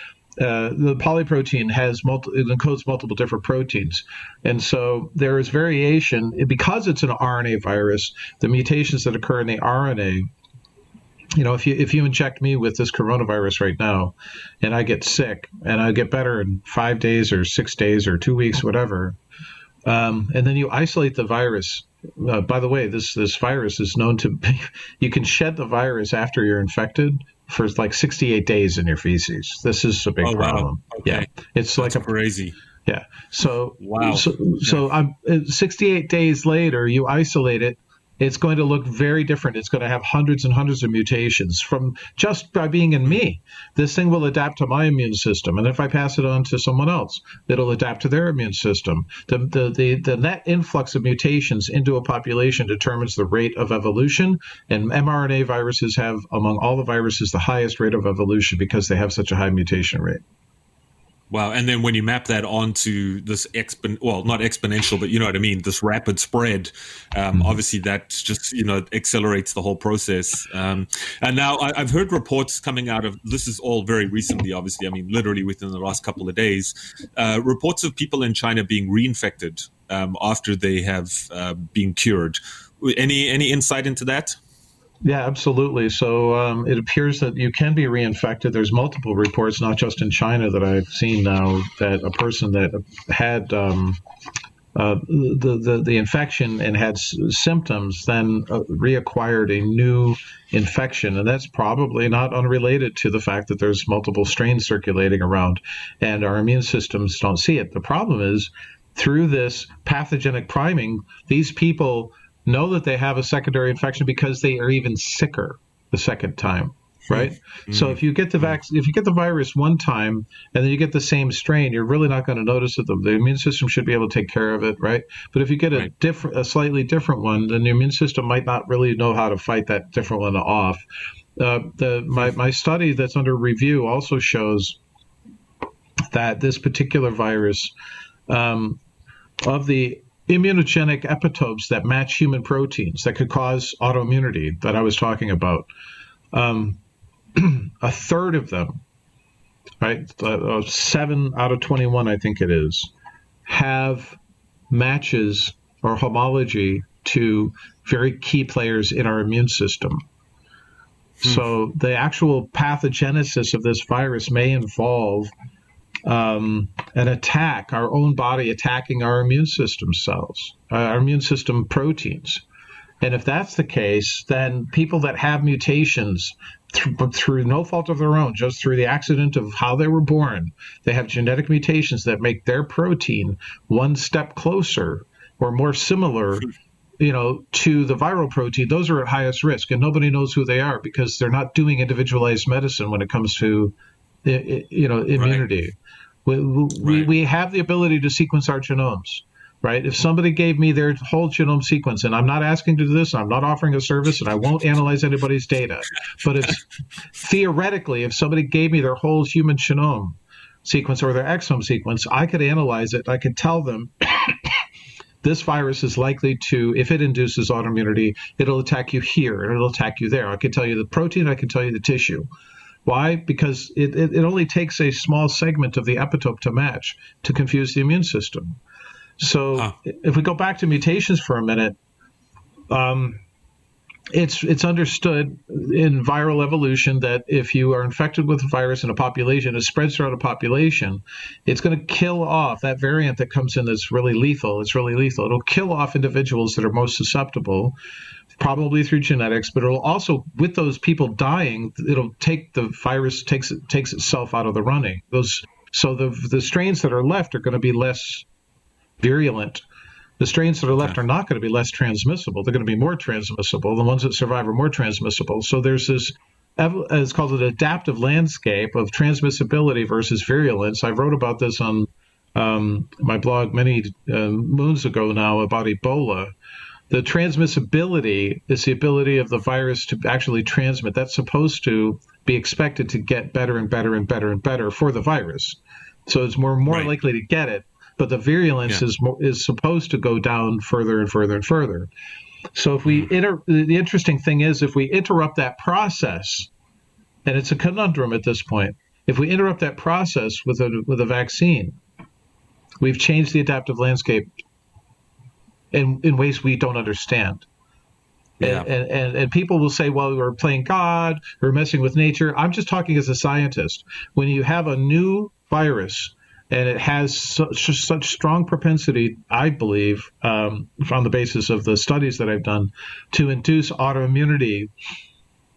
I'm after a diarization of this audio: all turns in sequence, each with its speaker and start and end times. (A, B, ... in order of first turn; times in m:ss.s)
0:00.4-0:10.3 A
0:11.4-0:19.2 A
0:19.8-0:32.1 A
0:30.2-0:32.6 B
0:32.8-1:00.2 A
0:33.8-0:34.8 B
1:01.3-1:24.4 B
1:25.0-1:34.0 A
1:34.7-2:10.8 A
1:57.1-1:58.0 B
2:11.4-2:14.8 A
2:16.1-2:17.7 A
2:18.3-2:18.8 A
2:19.4-2:25.7 A
2:26.3-2:26.8 A
2:27.4-2:28.8 A
2:29.8-2:32.9 A
2:33.4-2:34.2 A
2:34.7-2:40.0 A
2:41.2-2:45.3 A
2:46.0-2:52.4 A
2:53.0-3:15.7 A
3:15.2-3:15.4 B
3:16.2-3:26.6 A
3:16.8-3:17.1 B
3:27.1-3:34.6 A
3:35.2-3:42.3 A
3:42.8-3:48.6 A
3:49.2-3:51.8 A
3:52.7-3:53.2 A
3:54.1-4:07.8 A
4:08.4-4:18.2 A
4:19.0-4:19.6 A
4:20.2-4:36.3 A
4:36.9-4:51.9 A
4:52.5-4:56.5 A
4:57.2-5:01.8 A
5:02.8-5:04.3 A
5:05.7-5:07.5 A
5:08.4-5:24.7 A
5:08.4-5:08.7 B